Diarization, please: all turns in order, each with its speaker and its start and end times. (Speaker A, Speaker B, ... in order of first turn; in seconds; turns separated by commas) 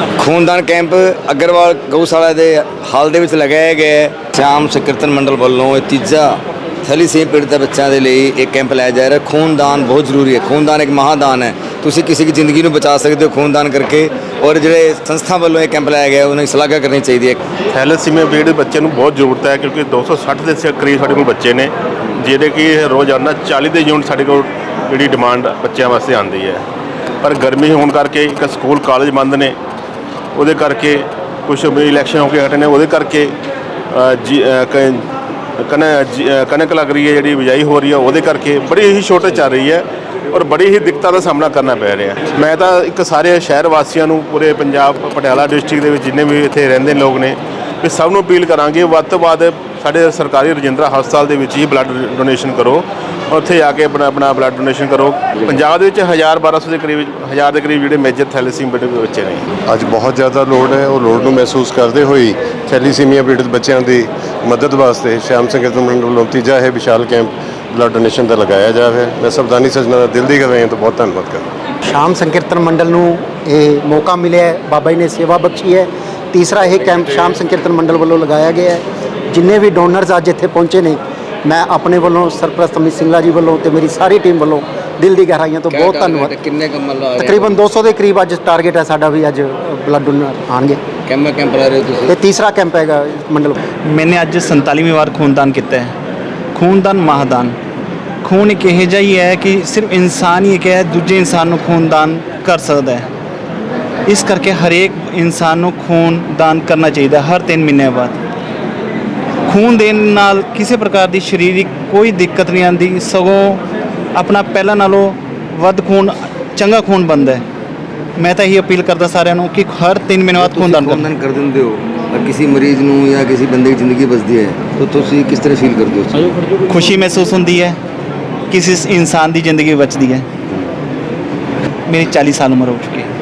Speaker A: 0.2-17.4, Speaker B: 17.7-26.6, Speaker B: 27.2-29.6, Speaker B: 30.3-33.3, Speaker B: 33.9-35.1, Speaker B: 35.7-59.5, Speaker C: 59.7-71.4, Speaker D: 71.9-86.3, Speaker A: 85.7-87.6, Speaker D: 87.2-90.8, Speaker A: 91.0-92.1, Speaker D: 92.0-93.6, Speaker E: 93.8-95.9, Speaker E: 96.5-97.5, Speaker E: 98.2-103.1, Speaker E: 104.0-108.2, Speaker E: 109.4-113.6, Speaker E: 114.1-117.4, Speaker E: 118.2-121.1, Speaker A: 120.4-126.3, Speaker E: 126.7-127.8, Speaker E: 128.5-130.3, Speaker E: 131.9-133.1